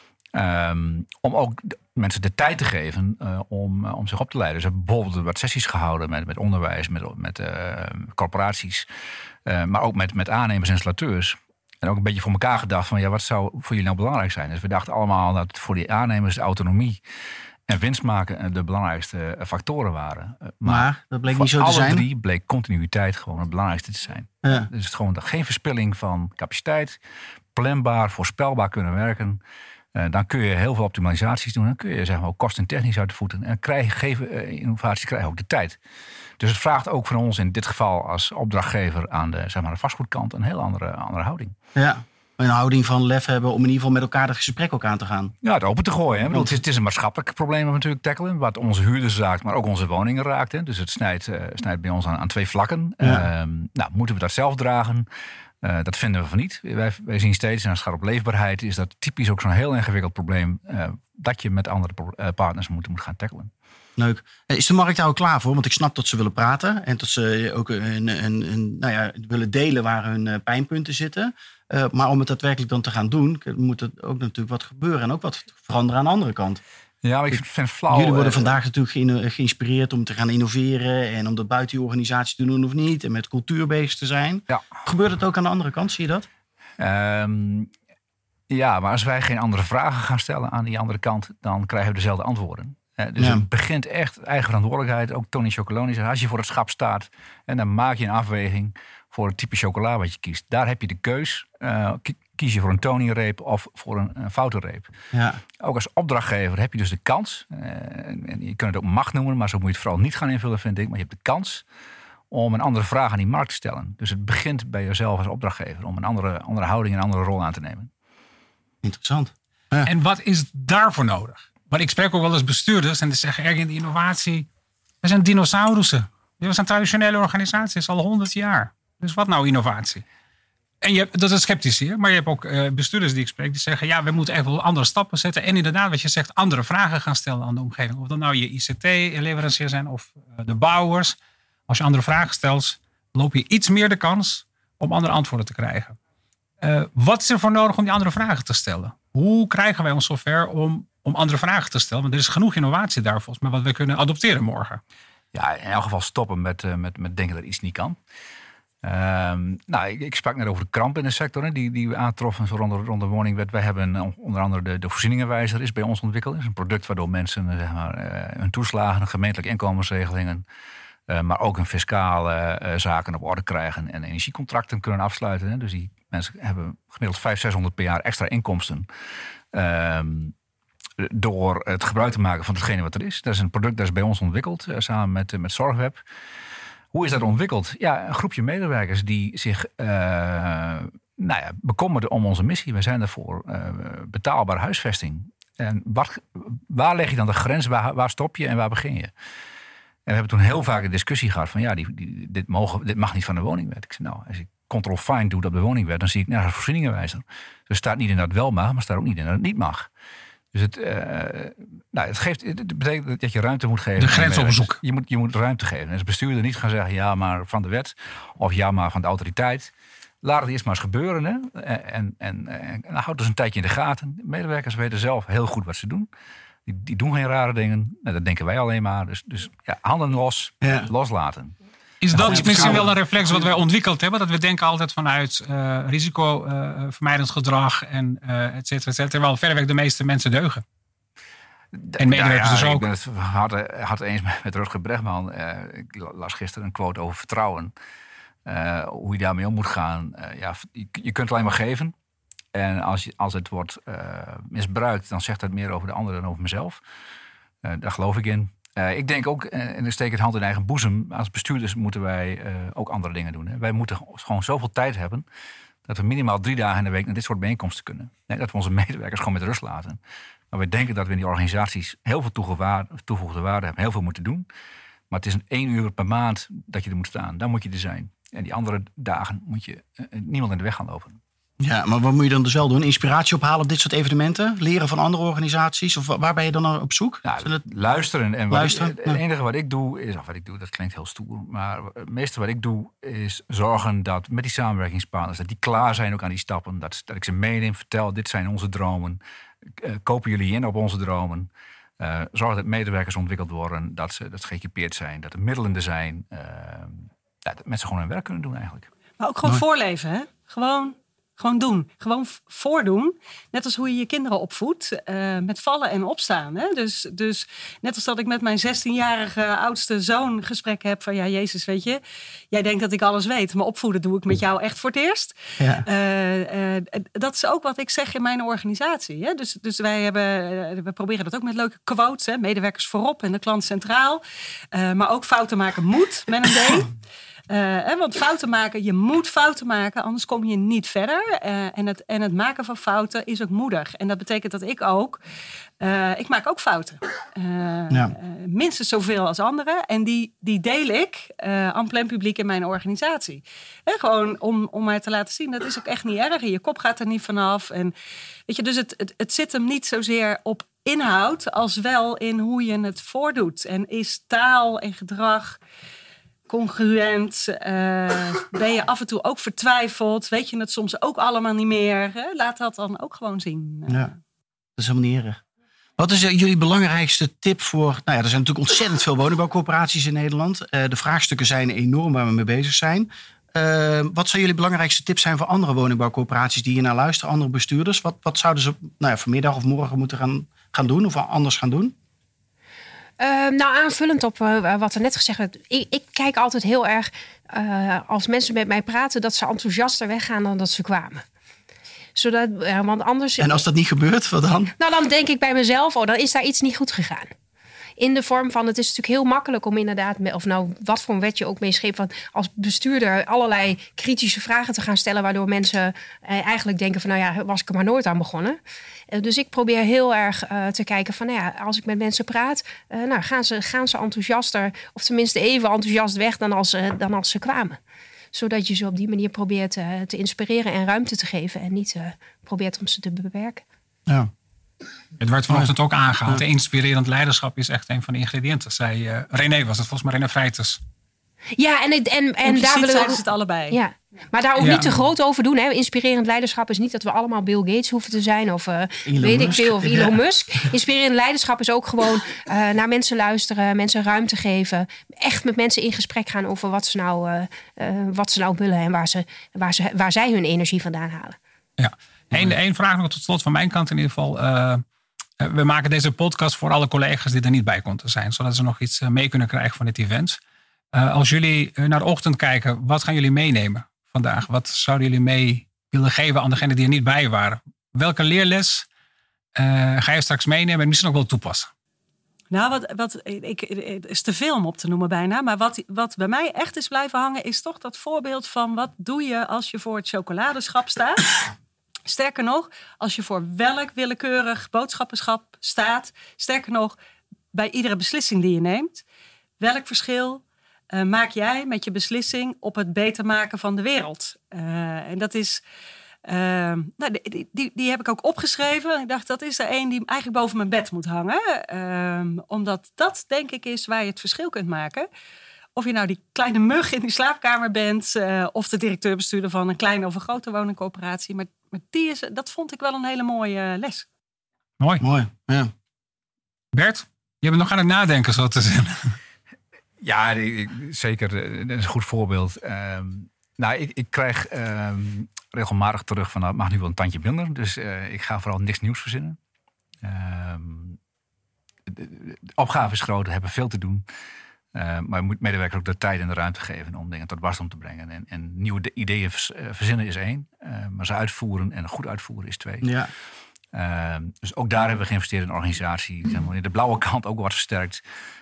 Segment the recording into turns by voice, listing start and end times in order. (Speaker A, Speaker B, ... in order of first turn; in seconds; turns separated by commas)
Speaker A: 0.3-8.9, Speaker A: 9.4-17.0, Speaker A: 17.7-27.0, Speaker B: 20.6-22.0, Speaker A: 27.5-29.4, Speaker A: 29.9-35.8, Speaker A: 36.4-41.5, Speaker B: 41.7-45.3, Speaker A: 45.4-55.1, Speaker B: 46.3-46.6, Speaker A: 55.6-63.5, Speaker B: 64.0-76.6, Speaker A: 77.0-78.6, Speaker B: 77.3-86.3, Speaker A: 86.8-87.7, Speaker A: 88.5-104.9, Speaker B: 105.1-105.4, Speaker A: 105.6-111.6, Speaker A: 112.3-117.9, Speaker B: 118.8-119.9, Speaker C: 119.8-124.5, Speaker C: 125.0-130.0, Speaker C: 130.8-141.2, Speaker C: 141.7-146.0, Speaker C: 146.6-154.8, Speaker A: 155.3-158.0, Speaker A: 158.8-170.4, Speaker A: 171.1-178.9, Speaker A: 179.5-180.3, Speaker A: 181.0-186.0, Speaker A: 186.9-199.1, Speaker A: 200.1-209.9, Speaker A: 210.5-219.7, Speaker C: 214.0-214.8, Speaker A: 220.2-226.1, Speaker A: 226.7-231.5, Speaker B: 230.6-230.9, Speaker C: 232.0-240.6, Speaker A: 232.1-232.9, Speaker B: 232.1-233.4, Speaker A: 241.7-247.7, Speaker C: 242.0-242.8, Speaker A: 248.4-251.9, Speaker A: 252.5-256.8, Speaker A: 257.6-265.2, Speaker A: 265.9-270.0, Speaker A: 270.5-274.4, Speaker A: 275.1-281.2, Speaker B: 281.6-287.6, Speaker A: 287.2-299.2, Speaker B: 288.5-289.2, Speaker A: 299.8-301.5, Speaker A: 302.0-308.9, Speaker D: 309.2-322.0, Speaker D: 322.5-334.2, Speaker B: 325.6-325.8, Speaker D: 334.7-336.9, Speaker D: 337.5-345.2, Speaker D: 345.8-357.9, Speaker D: 358.5-365.6, Speaker D: 366.5-374.1, Speaker B: 374.8-375.4, Speaker B: 376.0-391.9, Speaker E: 393.2-401.2, Speaker E: 402.1-403.6, Speaker B: 403.4-404.7, Speaker E: 404.8-407.3, Speaker E: 408.0-418.6, Speaker E: 419.1-427.8, Speaker E: 428.3-433.6, Speaker C: 435.2-440.8, Speaker E: 441.6-461.4, Speaker D: 442.4-443.8, Speaker C: 444.6-444.9, Speaker B: 449.1-450.2, Speaker C: 461.8-464.8, Speaker C: 465.4-470.4, Speaker C: 470.9-478.9, Speaker C: 479.5-481.7, Speaker D: 482.5-491.3, Speaker D: 492.1-496.9, Speaker D: 497.5-499.0, Speaker D: 499.6-505.6, Speaker D: 506.2-515.1, Speaker D: 515.7-524.1, Speaker B: 525.0-525.7, Speaker C: 526.7-529.1, Speaker A: 530.0-539.4, Speaker A: 540.0-541.0, Speaker A: 541.9-544.0, Speaker A: 544.7-553.0, Speaker B: 552.8-553.1, Speaker A: 553.7-558.0